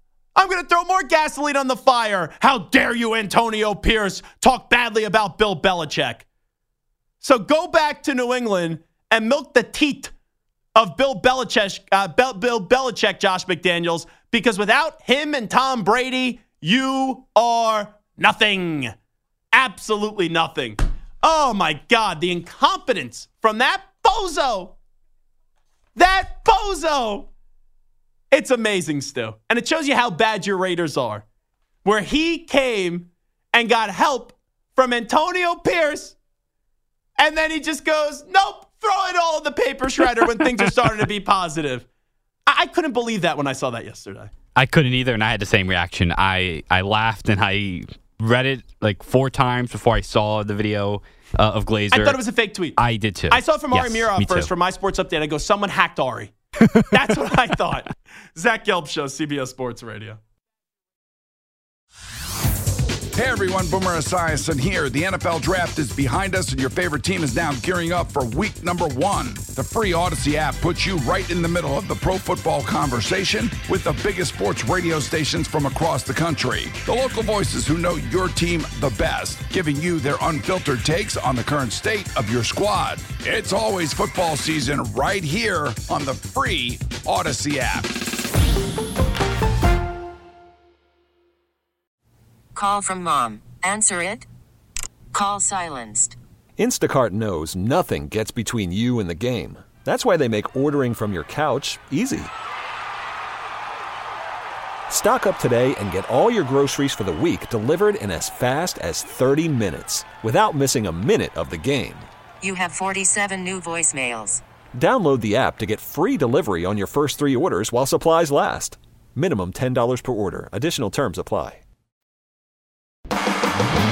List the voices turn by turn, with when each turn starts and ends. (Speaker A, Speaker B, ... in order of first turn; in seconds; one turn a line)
Speaker A: 0.3-6.2
Speaker A: 7.2-10.1
Speaker A: 10.7-18.9
Speaker A: 19.5-24.8
Speaker A: 25.9-27.3
Speaker A: 28.3-31.2
Speaker A: 31.8-36.1
Speaker A: 37.2-41.9
Speaker A: 42.5-44.3
Speaker B: 44.5-52.2
Speaker A: 51.9-52.8
Speaker B: 52.8-54.5
Speaker A: 53.3-56.3
Speaker A: 56.9-60.2
Speaker C: 63.1-87.9
Speaker D: 92.5-94.2
Speaker D: 95.1-96.1
Speaker E: 96.6-102.3
Speaker E: 104.9-112.1
Speaker D: 112.4-114.4
Speaker E: 114.7-121.6